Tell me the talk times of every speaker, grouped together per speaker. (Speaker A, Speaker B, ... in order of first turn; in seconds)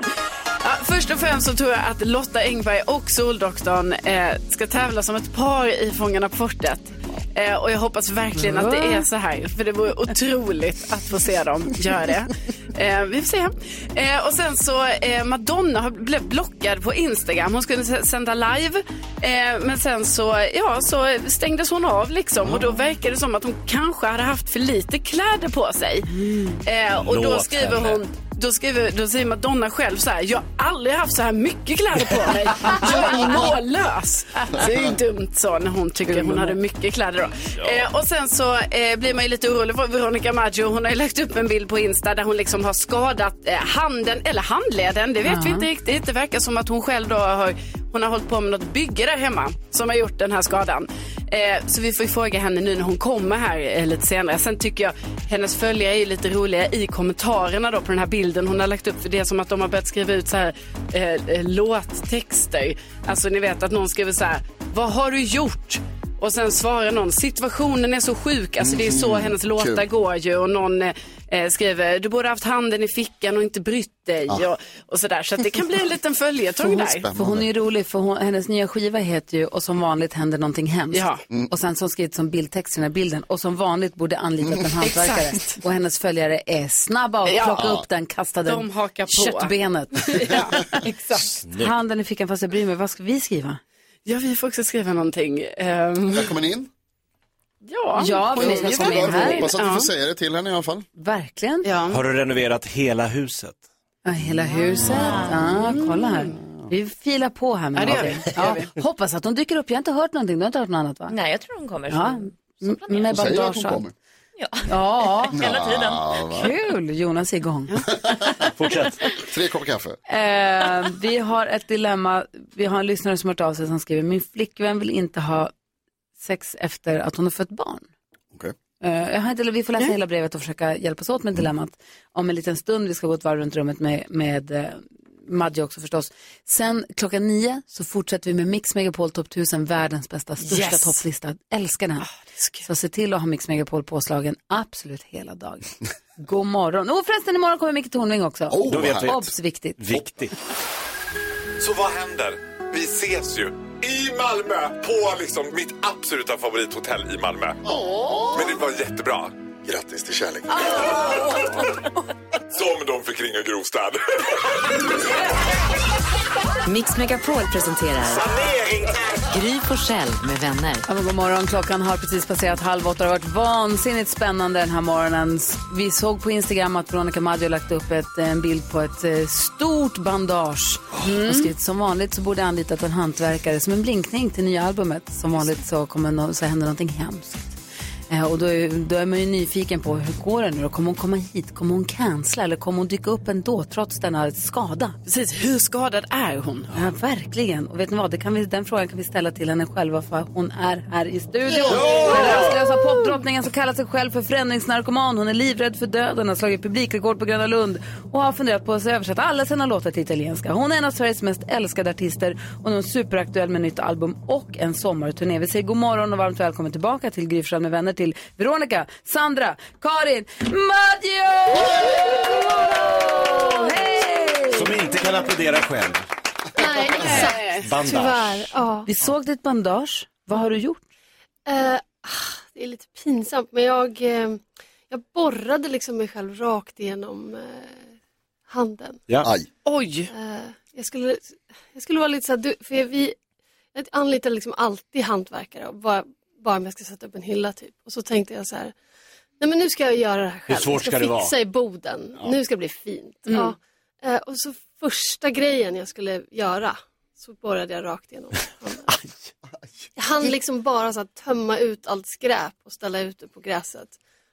Speaker A: 0.6-77.1, 80.9-81.2, 84.8-85.6, 87.2-87.6, 88.5-91.2, 94.1-96.3, 97.6-99.9, 101.6-102.0, 105.2-106.4, 107.8-108.6, 140.4-141.0, 142.1-142.7, 195.1-196.7, 201.7-202.6, 226.7-227.7, 239.7-240.1
Speaker B: 8.4-9.1, 26.1-26.6, 32.8-33.5, 36.1-36.6, 45.3-45.7, 77.1-90.3, 91.1-93.6, 98.0-99.5, 101.0-101.7, 104.0-111.2, 111.9-113.8, 114.7-115.4, 116.3-117.8, 120.1-125.5, 126.2-127.9, 128.8-142.1, 142.6-145.7, 146.2-149.8, 170.9-187.6, 188.1-195.0, 196.7-224.8, 228.9-230.8
Speaker C: 26.9-28.0, 91.4-91.7, 101.9-103.6, 118.6-119.0, 148.7-149.3, 149.8-150.3, 168.3-169.1, 201.7-202.6, 224.5-226.1, 227.2-228.5, 250.5-251.3
Speaker D: 68.6-69.9, 76.7-77.5, 87.5-87.8, 96.1-96.7, 98.3-100.9, 113.1-113.9, 115.3-116.5, 118.0-118.4, 119.3-120.0, 148.5-149.2, 157.7-158.6, 159.6-161.1, 239.2-239.5
Speaker E: 111.1-113.1, 114.4-116.4
Speaker F: 151.6-157.6, 158.3-159.4, 162.5-164.0
Speaker G: 166.7-168.3, 169.3-170.9
Speaker H: 226.6-228.9, 231.5-237.9, 238.5-239.1, 240.1-243.2, 243.7-248.8, 249.4-258.9, 260.0-263.9